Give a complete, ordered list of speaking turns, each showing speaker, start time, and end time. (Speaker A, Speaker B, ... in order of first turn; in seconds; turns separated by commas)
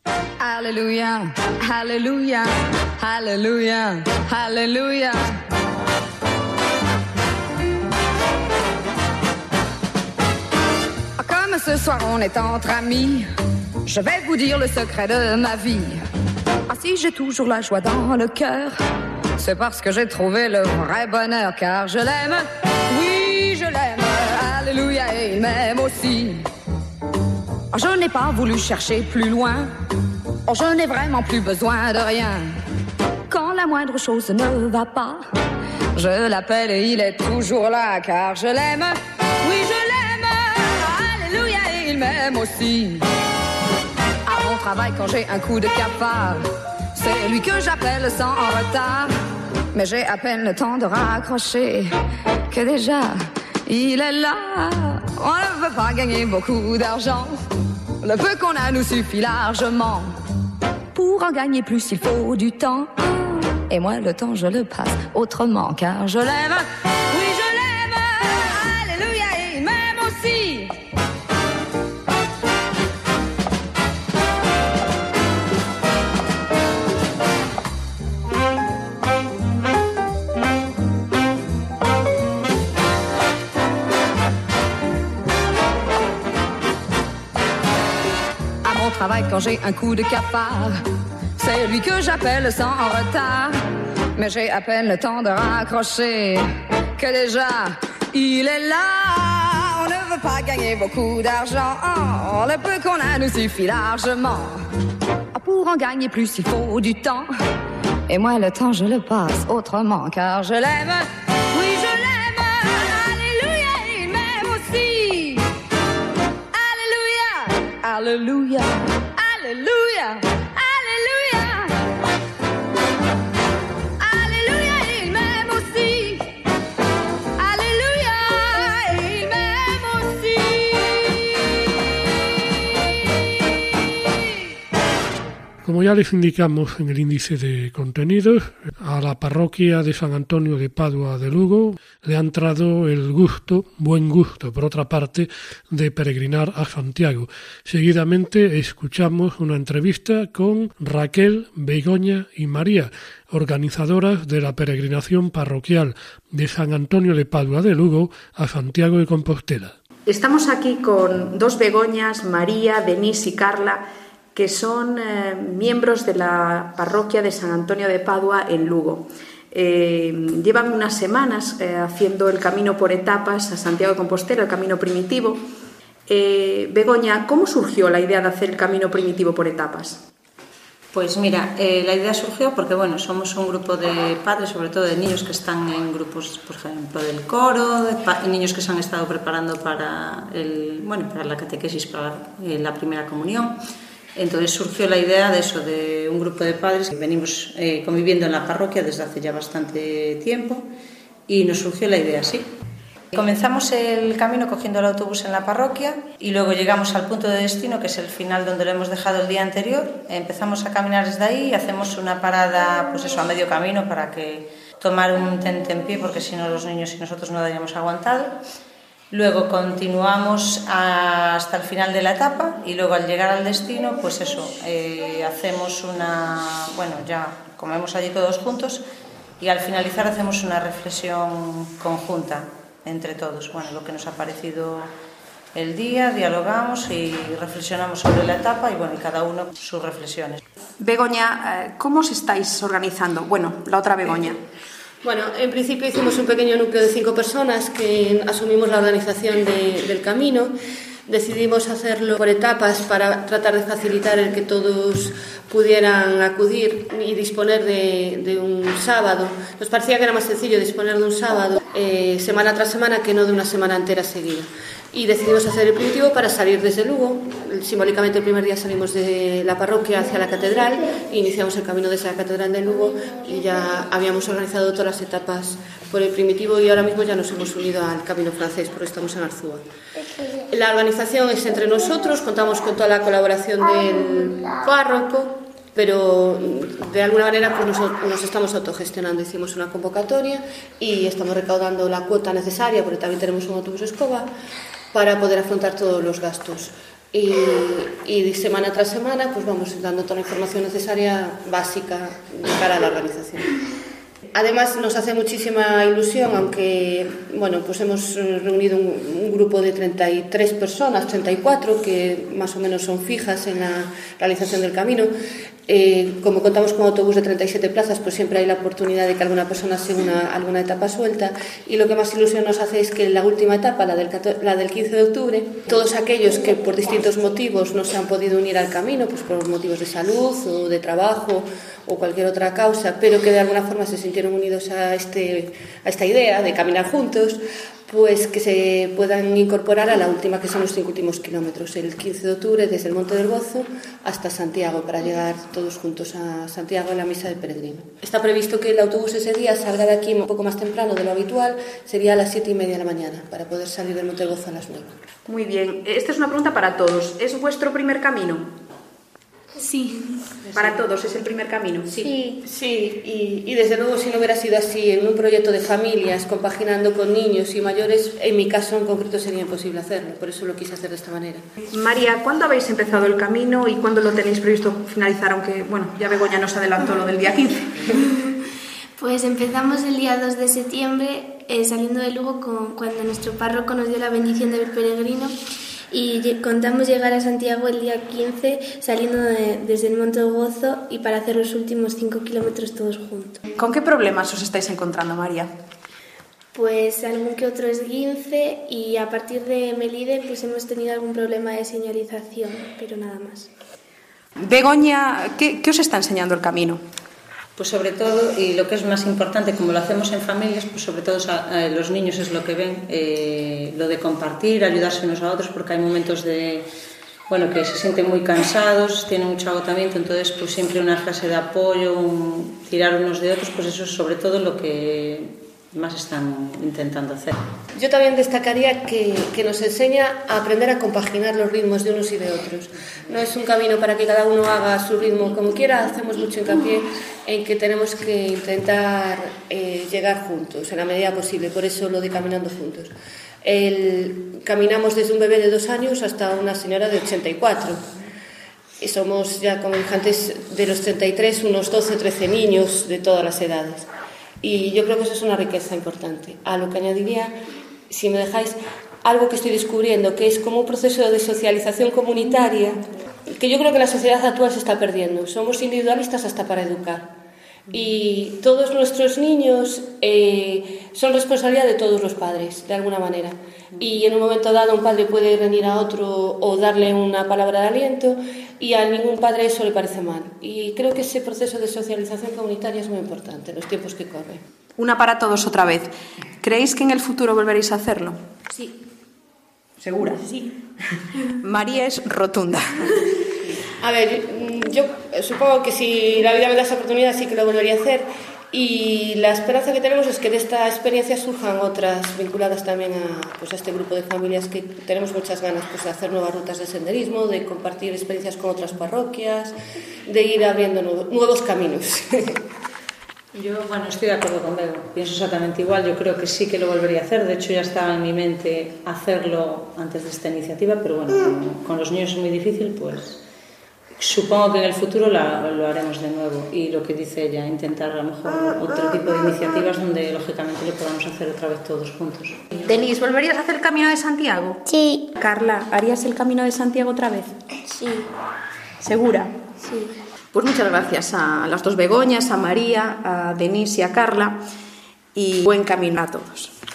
Speaker A: 0.4-5.3, Speaker A: 11.2-13.3, Speaker A: 13.8-15.9, Speaker A: 16.7-18.7, Speaker A: 19.4-26.4, Speaker A: 27.7-29.7, Speaker A: 30.5-32.5, Speaker A: 33.3-35.2, Speaker A: 35.9-43.0, Speaker A: 44.2-49.1, Speaker A: 49.7-51.9, Speaker A: 52.5-57.3, Speaker A: 58.0-60.1, Speaker A: 60.9-70.8, Speaker A: 88.6-90.8, Speaker A: 91.4-93.5, Speaker A: 94.2-104.6, Speaker A: 105.3-107.3, Speaker A: 108.1-115.5, Speaker A: 116.5-121.7, Speaker A: 124.0-126.3, Speaker A: 127.4-130.9, Speaker B: 135.6-159.8, Speaker C: 160.1-163.8, Speaker C: 164.3-169.0, Speaker C: 169.5-175.3, Speaker C: 176.1-179.9, Speaker D: 180.9-193.6, Speaker D: 194.2-200.7, Speaker D: 201.3-202.5, Speaker D: 203.1-218.4, Speaker D: 219.1-228.8, Speaker D: 229.4-234.9, Speaker D: 235.5-240.4, Speaker C: 240.9-244.3, Speaker E: 245.0-250.5, Speaker E: 251.1-279.6, Speaker E: 280.5-294.3, Speaker E: 294.9-303.5, Speaker E: 304.3-315.1, Speaker E: 315.7-354.9, Speaker C: 355.3-358.4, Speaker F: 359.6-360.2, Speaker E: 360.4-360.8, Speaker C: 360.6-361.9, Speaker E: 361.9-371.4, Speaker F: 361.9-362.4, Speaker C: 371.7-377.5, Speaker F: 379.0-385.3, Speaker F: 385.9-393.4, Speaker C: 393.6-395.5, Speaker F: 396.5-403.5, Speaker C: 404.4-406.8, Speaker D: 407.6-416.7, Speaker D: 417.3-427.4, Speaker E: 427.8-442.9, Speaker E: 443.4-447.8, Speaker E: 448.8-453.9, Speaker E: 454.4-457.3, Speaker E: 457.9-462.8, Speaker E: 463.3-467.1, Speaker E: 467.7-484.4, Speaker C: 484.8-485.9, Speaker C: 486.4-488.1, Speaker C: 489.8-490.2, Speaker C: 491.4-492.6, Speaker E: 493.8-509.5, Speaker E: 510.1-512.4, Speaker D: 513.3-523.2, Speaker D: 524.0-532.4, Speaker C: 532.6-534.6, Speaker F: 534.6-535.1, Speaker C: 535.1-537.3, Speaker F: 537.7-538.0, Speaker C: 538.8-539.3, Speaker F: 539.6-539.9, Speaker C: 540.3-544.4, Speaker C: 545.1-546.5